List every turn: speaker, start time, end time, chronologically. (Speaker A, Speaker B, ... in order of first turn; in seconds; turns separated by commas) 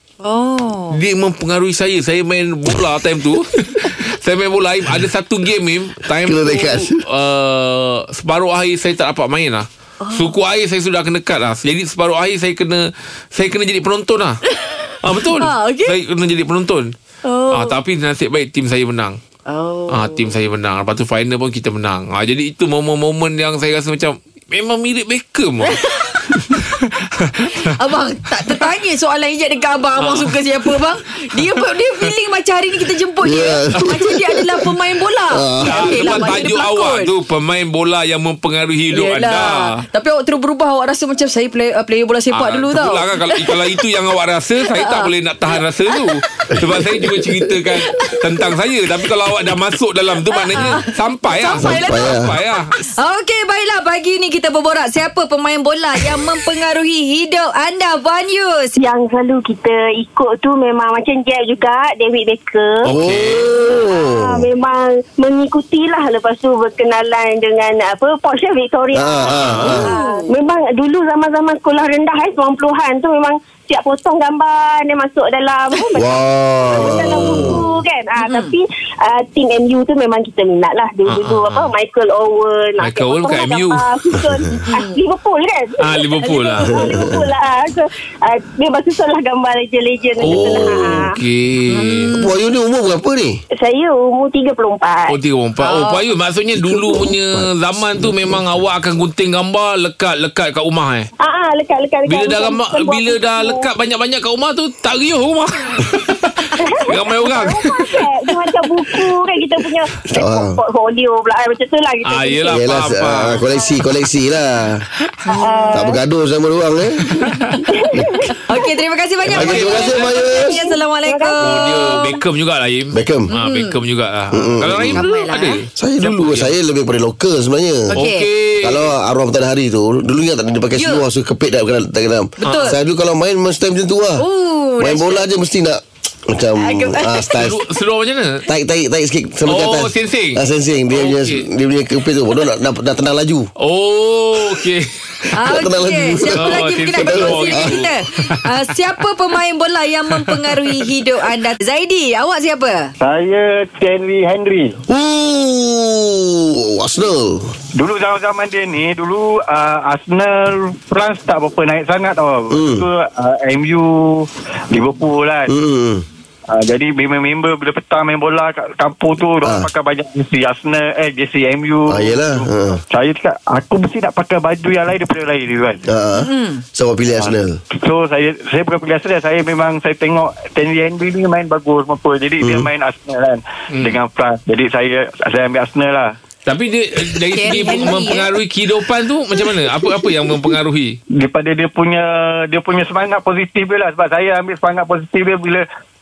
Speaker A: 0.2-1.0, Speaker B: 0.9-14.4, Speaker C: 6.2-7.0, Speaker A: 10.0-10.3, Speaker A: 14.4-15.9, Speaker B: 15.0-16.9, Speaker A: 17.2-17.8, Speaker B: 17.5-19.2, Speaker A: 19.5-20.3, Speaker B: 19.9-27.5, Speaker A: 25.6-26.6, Speaker A: 27.5-37.1, Speaker B: 30.0-30.8, Speaker B: 31.3-32.1, Speaker C: 33.2-34.6, Speaker C: 35.3-36.3, Speaker B: 35.6-39.8, Speaker A: 38.9-43.8, Speaker B: 42.3-52.8, Speaker A: 44.6-45.1, Speaker C: 46.5-46.9, Speaker A: 47.9-48.5, Speaker A: 50.3-58.8, Speaker C: 51.6-52.4, Speaker D: 58.8-62.9, Speaker B: 62.8-63.5, Speaker C: 62.9-64.4, Speaker D: 63.6-91.2, Speaker C: 68.9-69.9, Speaker B: 69.3-69.7, Speaker A: 69.7-70.3, Speaker C: 76.0-77.7, Speaker A: 78.2-78.5, Speaker B: 81.1-81.7, Speaker B: 82.8-83.8, Speaker A: 84.7-85.0, Speaker B: 85.8-86.8, Speaker A: 86.2-86.7, Speaker C: 86.8-87.1, Speaker B: 90.2-92.1, Speaker C: 90.2-91.0, Speaker A: 91.7-92.3, Speaker C: 92.2-93.4, Speaker D: 93.6-95.2, Speaker B: 95.1-101.1, Speaker A: 95.6-96.0, Speaker C: 96.5-98.4, Speaker D: 101.2-103.7, Speaker B: 102.1-107.8, Speaker D: 106.6-112.6, Speaker C: 110.1-110.6, Speaker B: 112.0-113.4, Speaker C: 112.5-114.8, Speaker A: 115.2-115.9, Speaker D: 115.3-116.0, Speaker C: 115.7-117.0, Speaker B: 117.1-117.5, Speaker A: 117.2-117.6, Speaker D: 117.7-118.7, Speaker A: 118.3-122.1, Speaker B: 119.3-120.2, Speaker C: 119.3-120.5, Speaker D: 120.1-122.1, Speaker B: 121.4-126.5, Speaker C: 122.9-123.3, Speaker A: 123.3-123.8, Speaker C: 124.3-125.0, Speaker A: 125.0-125.6, Speaker C: 125.8-128.0, Speaker A: 127.9-128.3, Speaker B: 127.9-128.9, Speaker C: 128.6-134.2, Speaker A: 130.8-131.0, Speaker A: 132.4-132.8, Speaker B: 132.4-132.7, Speaker A: 134.2-135.2, Speaker C: 134.8-137.6, Speaker A: 136.6-137.4, Speaker B: 137.3-138.4, Speaker C: 138.4-143.5, Speaker B: 139.4-141.5, Speaker B: 143.6-145.3, Speaker A: 145.3-152.9, Speaker C: 145.4-147.8, Speaker B: 146.3-148.4, Speaker B: 150.3-150.6, Speaker E: 153.0-154.8, Speaker C: 154.9-157.5, Speaker E: 157.8-165.5, Speaker C: 162.5-162.8, Speaker C: 165.5-166.0, Speaker E: 166.5-175.8, Speaker C: 169.4-169.7, Speaker C: 171.9-172.8, Speaker C: 175.8-177.6, Speaker A: 176.2-176.6, Speaker E: 177.1-186.1, Speaker C: 182.4-182.7, Speaker B: 186.4-191.0, Speaker A: 187.3-188.3, Speaker E: 191.1-195.6